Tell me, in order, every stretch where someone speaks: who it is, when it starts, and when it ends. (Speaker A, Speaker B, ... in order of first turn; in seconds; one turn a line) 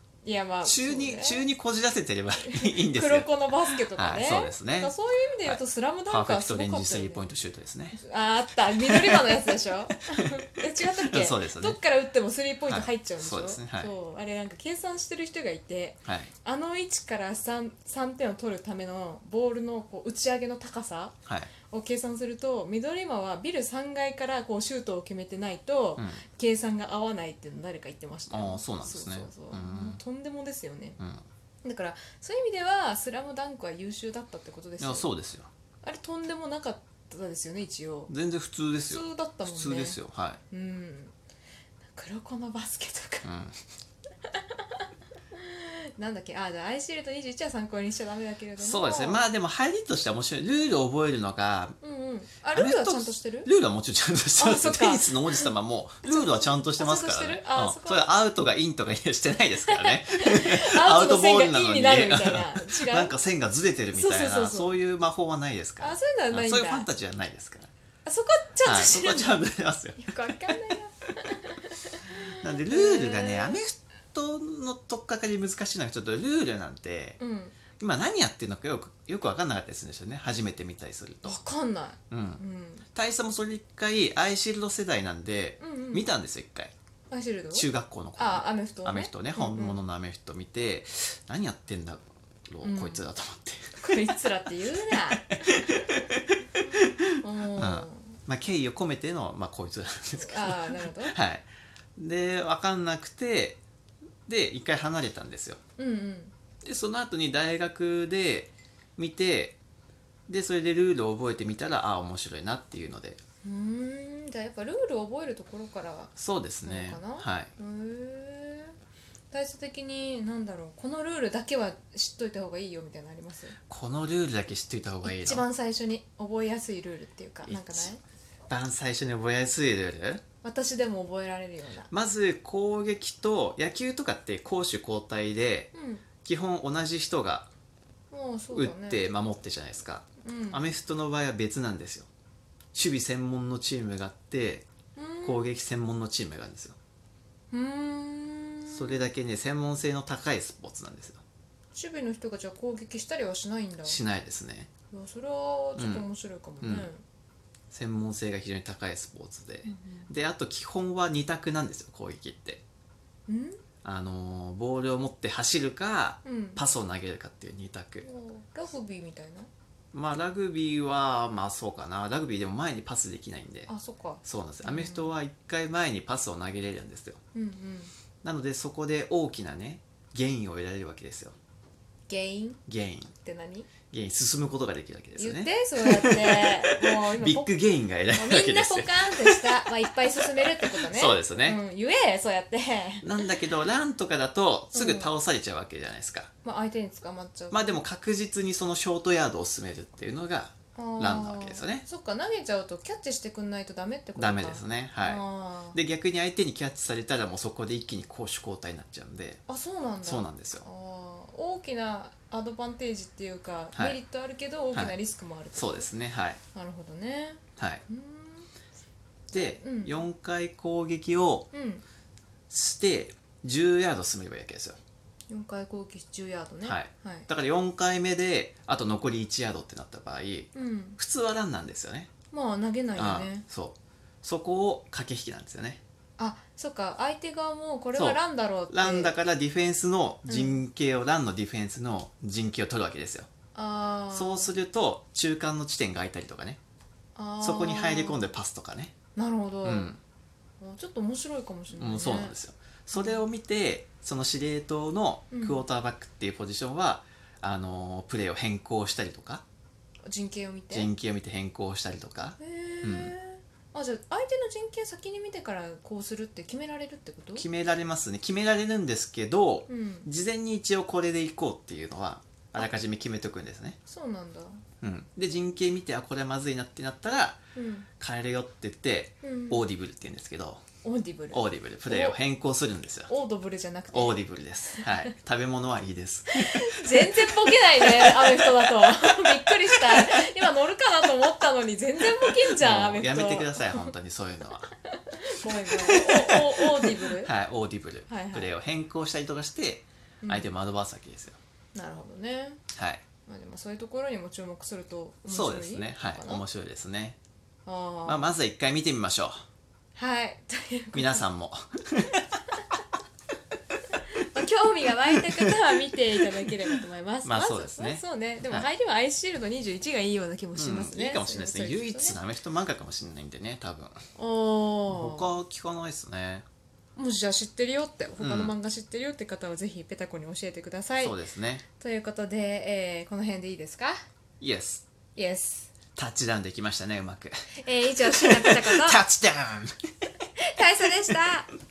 Speaker A: 0.2-1.5
Speaker B: 0.6-3.3
Speaker A: 2.4-7.3
Speaker B: 3.9-4.9
Speaker B: 5.4-8.0
Speaker A: 8.0-21.1
Speaker B: 8.8-9.3
Speaker B: 10.9-11.8
Speaker B: 12.7-13.9
Speaker B: 16.1-16.3
Speaker B: 21.3-21.5
Speaker A: 21.7-31.0
Speaker B: 26.0-26.2
Speaker B: 28.3-30.0
Speaker B: 31.0-31.2
Speaker A: 31.6-35.1
Speaker B: 34.8-35.5
Speaker A: 35.8-38.1
Speaker B: 38.1-40.4
Speaker A: 38.8-40.0
Speaker A: 40.5-41.1
Speaker A: 41.9-43.3
Speaker B: 43.2-43.6
Speaker A: 44.3-44.6
Speaker A: 45.3-49.2
Speaker B: 48.6-51.8
Speaker A: 51.8-53.5
Speaker B: 52.5-67.7
Speaker A: 54.4-55.5
Speaker A: 56.0-58.1
Speaker A: 59.7-63.2
Speaker A: 63.9-64.8
Speaker A: 65.8-66.9
Speaker A: 68.0-69.4
Speaker B: 68.7-70.1
Speaker A: 70.0-73.6
Speaker B: 72.4-77.2
Speaker A: 77.2-77.6
Speaker B: 77.8-81.4
Speaker A: 81.2-82.8
Speaker B: 82.1-82.4
Speaker B: 83.0-86.7
Speaker A: 85.6-86.1
Speaker A: 87.1-89.8
Speaker B: 87.5-93.8
Speaker A: 92.6-93.0
Speaker A: 93.8-95.4
Speaker B: 95.1-96.2
Speaker B: 96.8-101.5
Speaker A: 97.2-98.2
Speaker A: 100.2-101.2
Speaker B: 102.0-103.6
Speaker B: 104.3-105.6
Speaker A: 105.8-106.3
Speaker B: 106.6-109.6
Speaker B: 110.3-113.2
Speaker A: 113.4-118.8
Speaker B: 116.2-117.5
Speaker A: 119.3-123.5
Speaker B: 123.7-125.4
Speaker A: 125.0-128.0
Speaker B: 127.5-127.9
Speaker B: 128.5-130.2
Speaker A: 130.4-131.9
Speaker B: 131.9-137.5
Speaker A: 135.7-136.1
Speaker A: 138.1-139.0
Speaker B: 138.5-142.1
Speaker A: 140.2-140.6
Speaker B: 142.7-144.7
Speaker A: 145.0-145.5
Speaker B: 145.2-146.8
Speaker A: 147.5-149.1
Speaker B: 148.7-151.2
Speaker A: 151.8-154.0
Speaker B: 153.8-154.7
Speaker A: 154.9-157.0
Speaker B: 155.8-156.1
Speaker B: 156.6-156.9
Speaker B: 157.7-162.6
Speaker A: 159.7-160.1
Speaker A: 163.3-163.6
Speaker B: 163.8-168.1
Speaker A: 166.2-166.6
Speaker A: 168.0-169.5
Speaker B: 169.9-173.7
Speaker A: 173.7-175.1
Speaker B: 174.2-177.2
Speaker A: 177.3-177.9
Speaker B: 178.2-181.3
Speaker A: 182.1-182.6
Speaker B: 182.7-183.1
Speaker A: 183.2-183.7
Speaker B: 183.9-189.9
Speaker A: 185.2-187.5
Speaker A: 188.1-193.3
Speaker B: 190.6-191.6
Speaker B: 193.0-196.3
Speaker A: 194.7-195.1
Speaker A: 196.4-197.8
Speaker B: 197.5-201.8
Speaker A: 200.8-205.8
Speaker B: 204.2-209.4
Speaker A: 209.5-215.9
Speaker B: 210.0-210.7
Speaker B: 215.6-216.4
Speaker A: 216.5-218.5
Speaker B: 217.6-217.8
Speaker B: 219.3-221.5
Speaker A: 219.3-220.0
Speaker A: 221.5-221.8
Speaker B: 222.5-224.8
Speaker A: 225.3-227.3
Speaker B: 226.7-232.1
Speaker A: 230.5-231.0
Speaker A: 232.3-233.4
Speaker B: 233.0-235.8
Speaker A: 236.2-239.1
Speaker B: 237.9-243.3
Speaker A: 240.3-240.6
Speaker A: 243.6-244.5
Speaker B: 244.1-246.6
Speaker A: 247.2-248.3
Speaker B: 247.4-248.9
Speaker A: 249.2-249.9
Speaker B: 249.6-250.0
Speaker A: 250.6-252.3
Speaker B: 251.8-259.4
Speaker A: 252.9-253.2
Speaker A: 255.3-255.7
Speaker A: 260.1-260.9
Speaker B: 260.7-263.1
Speaker A: 262.4-267.5
Speaker B: 267.4-273.8
Speaker A: 269.7-270.1
Speaker A: 273.9-274.6
Speaker B: 274.8-277.4
Speaker A: 277.6-277.9
Speaker B: 278.0-280.6
Speaker A: 279.2-279.6
Speaker A: 280.8-282.2
Speaker B: 281.3-283.1
Speaker A: 283.1-284.2
Speaker B: 283.9-290.2
Speaker A: 284.7-285.1
Speaker A: 286.3-293.9
Speaker B: 292.2-294.7
Speaker A: 294.9-297.3
Speaker B: 295.4-301.4
Speaker A: 298.1-298.5
Speaker A: 300.2-300.5
Speaker A: 301.7-302.6
Speaker B: 302.8-303.0
Speaker A: 303.3-306.4
Speaker B: 305.3-307.2
Speaker A: 307.7-308.3
Speaker B: 308.1-309.4
Speaker A: 310.0-311.2
Speaker B: 310.9-312.4
Speaker A: 314.1-322.2
Speaker B: 317.2-318.7
Speaker B: 320.6-324.0
Speaker A: 324.2-325.3
Speaker B: 324.9-326.5
Speaker A: 327.0-331.2
Speaker B: 328.2-328.6
Speaker B: 331.0-331.6
Speaker A: 331.8-334.0
Speaker B: 334.4-334.9
Speaker A: 335.1-335.7
Speaker B: 336.0-337.3
Speaker A: 337.6-339.0
Speaker B: 338.0-339.8
Speaker A: 340.4-341.5